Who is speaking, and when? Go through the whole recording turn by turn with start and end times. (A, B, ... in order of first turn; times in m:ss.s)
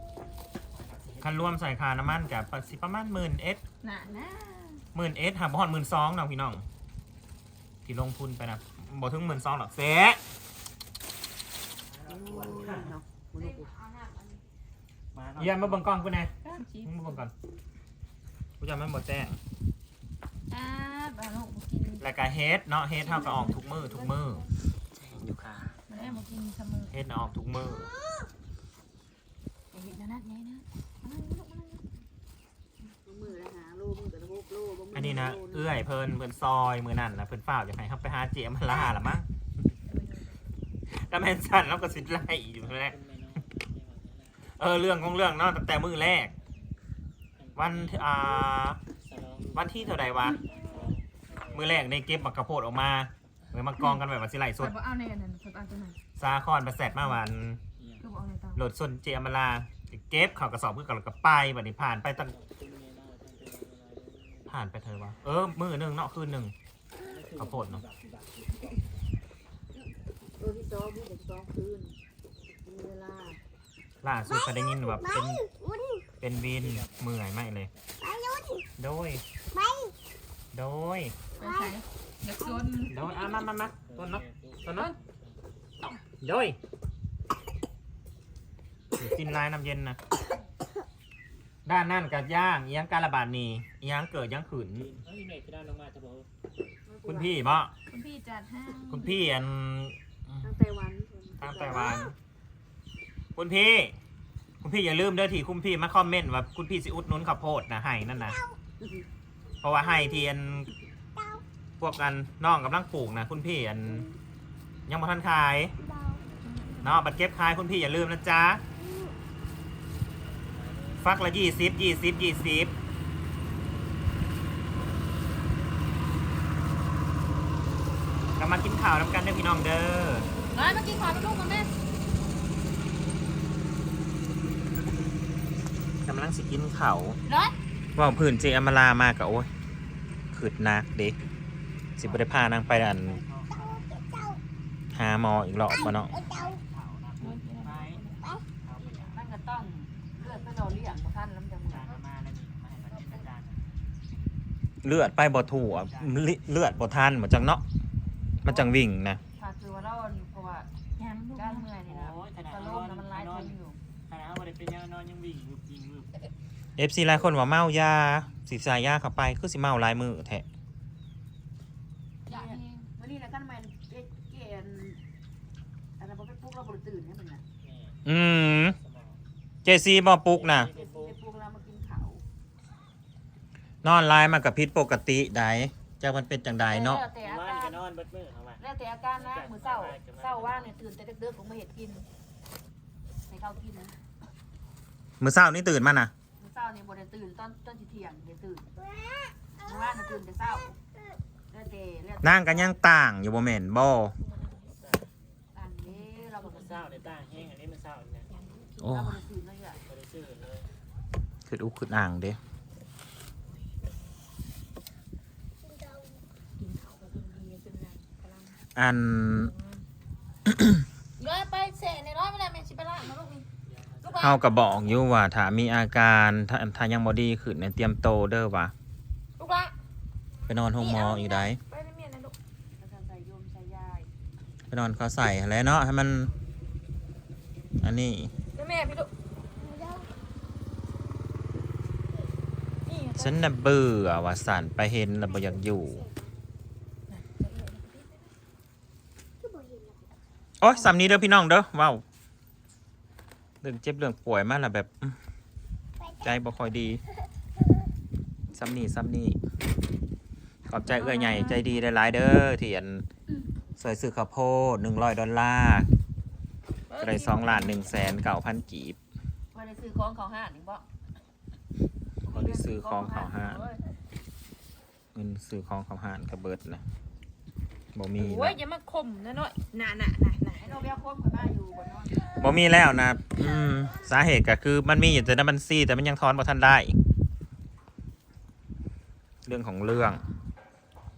0:00.8-0:01.6 A
0:01.2-0:03.6 B
0:03.8-0:04.8 C
0:04.9-0:06.6 B
0:07.8-0:10.2 B
0:12.0-0:13.7 D
0:13.4-0:14.4 C
0:15.1-0:16.0 A
0:15.4-0:17.3 B
0:16.4-0:17.2 C
0:18.6-0:19.4 B
0:20.5-0:22.0 C
0:22.0-0:24.4 B
0:23.0-0:24.4 C
0:24.9-0:25.9 A
0:25.9-0:26.9 C
0:26.9-0:27.9 B
0:29.7-0:31.8 C
0:33.0-0:35.8 D
0:34.9-0:39.3 B
0:39.9-0:40.3 C
0:40.9-0:43.0 B
0:42.9-0:44.4 A
0:44.6-0:46.3 B
0:47.4-0:48.4 A
0:47.6-0:48.8 B
0:49.0-0:51.6 A
0:49.5-0:50.4 B
0:51.5-0:54.8 B
0:54.6-0:56.0 C
0:56.2-0:57.6 B
0:57.8-0:58.0 A
0:58.0-0:58.6 C
0:58.6-1:02.3 B
1:02.3-1:04.5 A
1:04.5-1:06.5 B
1:07.0-1:08.6 A
1:07.4-1:07.8 B
1:10.4-1:12.0 D
1:12.6-1:13.4 D
1:14.0-1:15.4 B
1:14.3-1:16.1 E
1:16.2-1:17.7 B
1:16.5-1:17.1 A
1:18.0-1:18.6 E
1:18.8-1:19.2 B
1:19.5-1:19.9 E
1:20.5-1:21.2 B
1:21.4-1:23.0 C
1:21.4-1:21.8 E
1:22.9-1:24.9 B
1:23.8-1:25.3 A
1:26.0-1:26.6 B
1:29.0-1:30.0 B
1:31.6-1:34.9 B
1:34.8-1:36.3 A
1:36.8-1:37.6 D
1:37.0-1:37.7 B
1:37.9-1:39.2 C
1:38.9-1:40.5 B
1:40.4-1:41.9 D
1:41.4-1:42.1 B
1:43.4-1:44.0 B
1:44.6-1:48.4 B
1:48.2-1:48.6 E
1:48.8-1:49.0 D
1:49.6-1:50.7 B
1:51.2-1:51.4 E
1:51.8-1:54.1 B
1:54.9-1:55.7 B
1:55.9-1:56.2 E
1:56.4-1:56.9 C
1:56.8-1:58.6 B
1:58.8-1:59.1 E
2:00.6-2:01.0 A
2:01.0-2:02.7 B
2:08.4-2:10.3 B
2:10.5-2:11.7 C
2:16.0-2:17.2 B
2:17.3-2:17.5 C
2:18.0-2:19.5 B
2:20.3-2:21.2 B
2:22.0-2:23.2 B
2:22.0-2:23.9 A
2:23.5-2:24.4 E
2:24.9-2:26.2 B
2:26.0-2:29.2 A
2:26.1-2:26.6 E
2:27.2-2:28.3 C
2:29.1-2:31.9 D
2:31.7-2:33.6 A
2:34.8-2:37.6 B
2:35.7-2:36.2 A
2:38.4-2:39.2 B
2:38.4-2:38.7 D
2:39.3-2:40.7 D
2:41.0-2:41.7 C
2:41.3-2:43.8 D
2:41.8-2:43.5 A
2:44.1-2:46.1 A
2:46.8-2:50.4 B
2:52.3-2:52.8 C
2:52.3-2:55.0 D
2:56.0-2:57.4 D
2:57.6-2:58.0 A
2:58.0-2:58.8 B
2:58.7-2:59.2 A
2:59.6-3:00.7 B
3:00.3-3:01.2 A
3:00.6-3:02.2 D
3:03.8-3:07.0 B
3:06.6-3:07.8 D
3:07.2-3:08.6 A
3:08.6-3:12.0 D
3:09.2-3:11.0 A
3:13.3-3:13.9 D
3:15.2-3:16.1 B
3:16.4-3:18.7 D
3:18.8-3:19.9 E
3:19.6-3:20.8 D
3:21.5-3:22.8 D
3:22.2-3:24.1 B
3:24.3-3:24.7 C
3:24.7-3:25.1 A
3:25.5-3:27.0 D
3:25.9-3:26.2 C
3:26.4-3:28.3 A
3:28.3-3:28.9 C
3:28.8-3:29.2 B
3:28.8-3:29.8 D
3:29.8-3:30.7 A
3:31.5-3:32.4 B
3:35.7-3:36.1 E
3:36.6-3:38.6 C
3:38.8-3:39.5 B
3:39.3-3:39.8 C
3:40.4-3:40.8 B
3:41.2-3:43.4 C
3:43.7-3:44.8 A
3:44.0-3:44.4 C
3:44.2-3:48.7 B
3:49.4-3:49.7 C
3:50.5-3:51.6 B
3:50.8-3:52.3 C
3:52.8-3:54.1 D
3:54.7-3:56.3 B
3:57.8-3:58.3 B
3:58.6-3:59.1 C
3:59.6-4:00.1 E
4:02.8-4:03.4 C
4:03.1-4:06.1 B
4:07.1-4:08.1 C
4:09.4-4:10.1 E
4:10.6-4:12.0 B
4:13.6-4:15.2 B
4:16.2-4:17.0 B
4:18.5-4:19.4 B
4:20.7-4:23.0 B
4:20.9-4:21.6 C
4:23.8-4:25.9 B
4:26.9-4:27.9 C
4:27.0-4:29.0 B
4:29.5-4:30.8 D
4:32.2-4:33.8 D
4:32.3-4:33.6 B
4:35.1-4:36.8 B
4:37.9-4:38.6 B
4:38.2-4:40.8 C
4:40.6-4:42.2 D
4:42.2-4:47.0 B
4:49.4-4:50.2 B